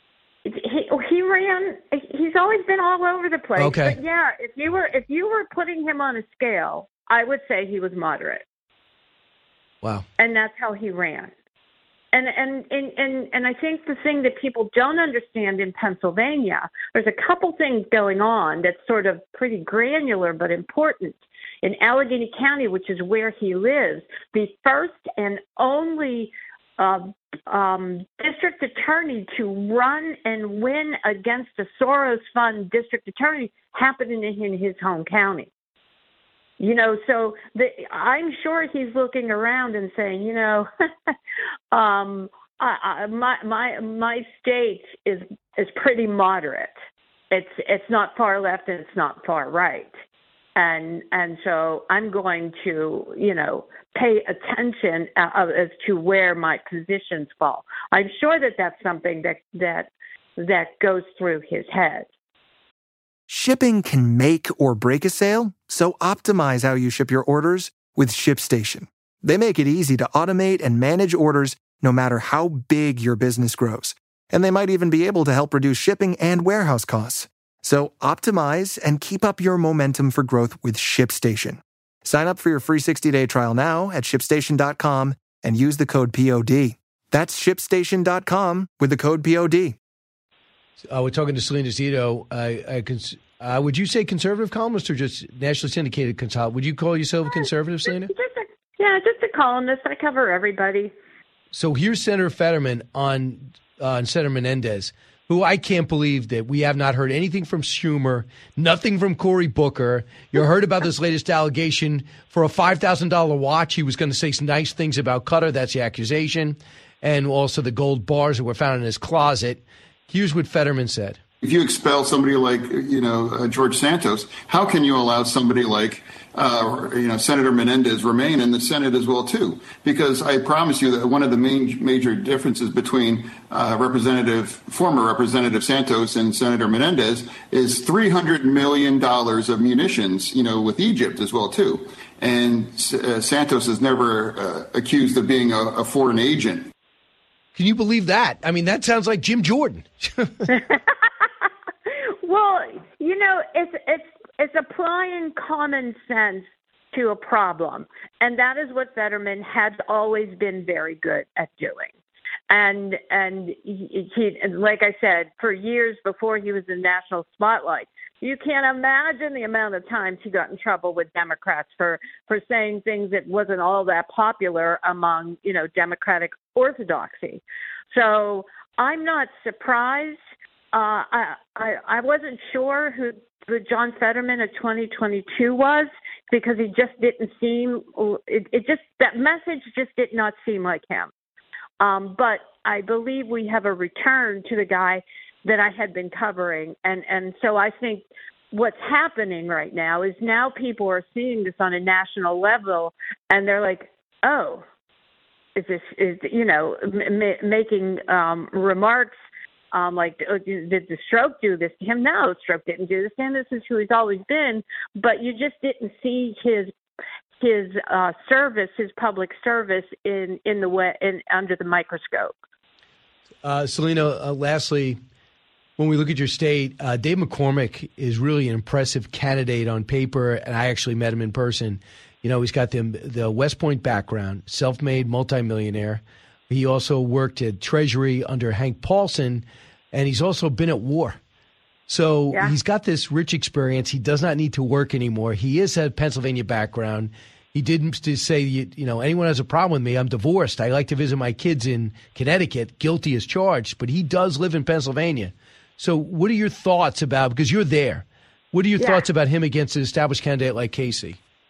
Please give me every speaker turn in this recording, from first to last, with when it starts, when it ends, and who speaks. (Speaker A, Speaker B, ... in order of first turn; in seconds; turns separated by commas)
Speaker A: 0.5-8.4, Speaker B: 3.6-4.0, Speaker A: 10.2-11.3, Speaker A: 12.1-35.5, Speaker A: 36.6-40.7, Speaker A: 41.7-46.7, Speaker A: 47.3-49.9, Speaker A: 50.6-62.1, Speaker C: 63.3-89.8, Speaker B: 90.9-98.1, Speaker A: 97.3-100.9, Speaker B: 101.5-121.2, Speaker D: 121.4-146.7, Speaker B: 147.6-150.6, Speaker A: 152.2-161.9, Speaker A: 162.5-180.2, Speaker A: 180.7-191.1, Speaker A: 191.8-204.6, Speaker A: 205.6-209.2, Speaker A: 209.7-216.7, Speaker A: 217.4-222.3, Speaker B: 223.4-225.0, Speaker B: 225.8-241.2, Speaker B: 241.9-261.2, Speaker A: 258.8-259.1